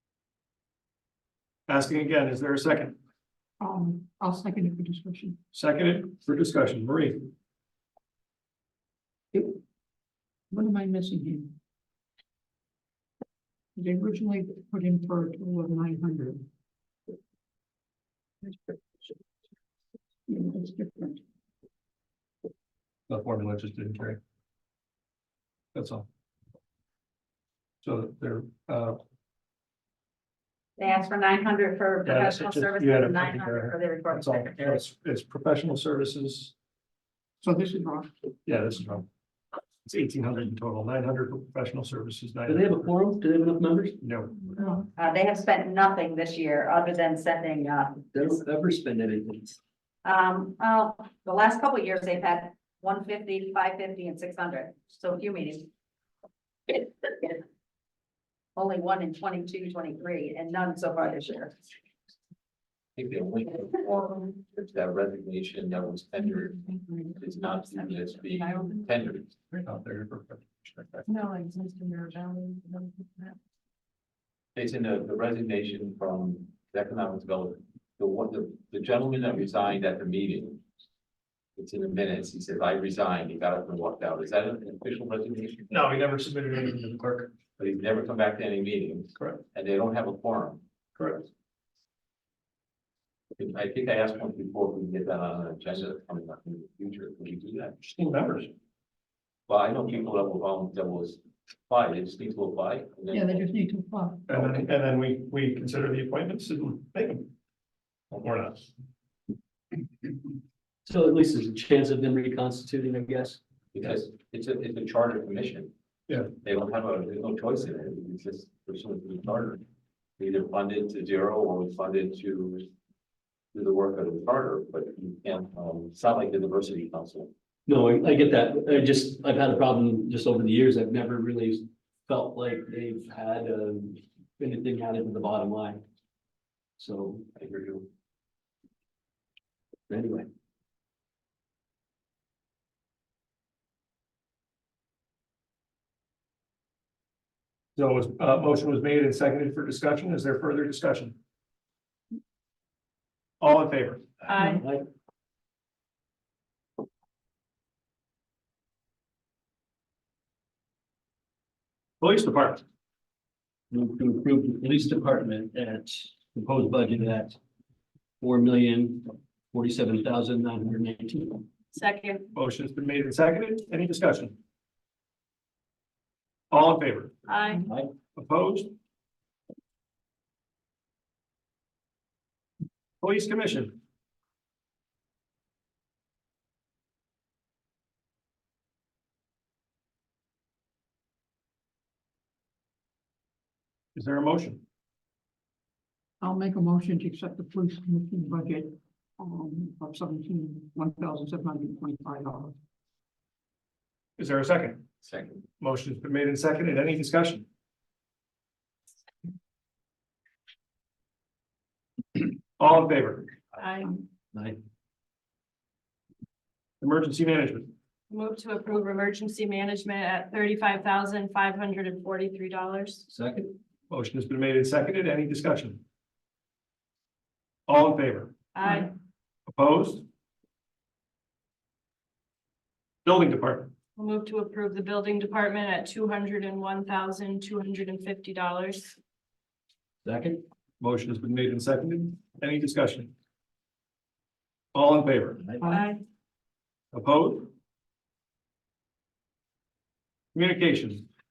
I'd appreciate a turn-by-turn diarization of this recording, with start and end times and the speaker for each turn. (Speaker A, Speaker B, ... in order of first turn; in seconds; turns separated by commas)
Speaker A: 1.7-3.0, Speaker B: 3.6-5.4, Speaker A: 5.5-7.3, Speaker B: 9.3-9.6, Speaker B: 10.5-11.5, Speaker B: 13.8-16.5, Speaker B: 20.3-21.2, Speaker A: 23.1-24.2, Speaker A: 25.7-26.1, Speaker A: 27.8-29.0, Speaker C: 30.8-34.8, Speaker A: 32.1-36.5, Speaker B: 37.4-38.1, Speaker A: 38.5-39.1, Speaker A: 39.9-42.8, Speaker D: 42.5-44.0, Speaker A: 44.0-44.5, Speaker B: 44.5-44.9, Speaker C: 45.0-48.1, Speaker D: 48.1-49.6, Speaker C: 50.0-55.7, Speaker C: 56.7-57.4, Speaker C: 58.6-61.6, Speaker E: 63.0-69.4, Speaker A: 69.5-71.1, Speaker B: 71.1-73.3, Speaker E: 74.5-80.6, Speaker E: 81.6-85.7, Speaker A: 85.7-87.3, Speaker E: 87.6-90.6, Speaker A: 89.2-89.4, Speaker A: 91.0-91.3, Speaker E: 93.4-97.8, Speaker A: 97.8-98.5, Speaker E: 99.5-103.5, Speaker B: 103.1-104.3, Speaker A: 104.3-107.3, Speaker E: 104.4-104.7, Speaker A: 108.1-108.7, Speaker D: 110.9-113.4, Speaker E: 113.7-115.7, Speaker E: 116.4-119.6, Speaker E: 120.2-122.7, Speaker E: 123.5-127.3, Speaker D: 127.7-135.8, Speaker D: 136.8-137.3, Speaker E: 137.4-137.9, Speaker D: 139.9-140.3, Speaker A: 147.8-151.2, Speaker A: 153.4-154.1, Speaker F: 154.3-154.6, Speaker D: 154.3-154.9, Speaker A: 162.0-162.6, Speaker D: 163.7-167.4, Speaker D: 168.2-171.5, Speaker F: 171.7-172.3, Speaker A: 172.3-174.4, Speaker A: 176.5-177.2, Speaker F: 177.3-177.6, Speaker D: 177.7-177.9, Speaker A: 178.2-178.7, Speaker A: 183.0-183.8, Speaker A: 193.9-194.6, Speaker B: 196.2-202.5, Speaker A: 204.2-204.9, Speaker E: 205.0-205.4, Speaker A: 205.6-207.5, Speaker A: 212.6-213.3, Speaker F: 213.6-214.0, Speaker D: 214.3-214.6, Speaker A: 216.8-217.7, Speaker F: 218.1-223.1, Speaker D: 223.1-223.6, Speaker A: 223.9-225.8, Speaker A: 227.7-228.3, Speaker F: 228.6-228.9, Speaker A: 229.5-230.1, Speaker A: 233.1-233.7, Speaker F: 234.0-239.0, Speaker D: 240.1-240.4, Speaker A: 240.8-243.1, Speaker A: 244.7-245.5, Speaker F: 245.7-246.0, Speaker A: 246.9-247.5, Speaker A: 250.3-251.1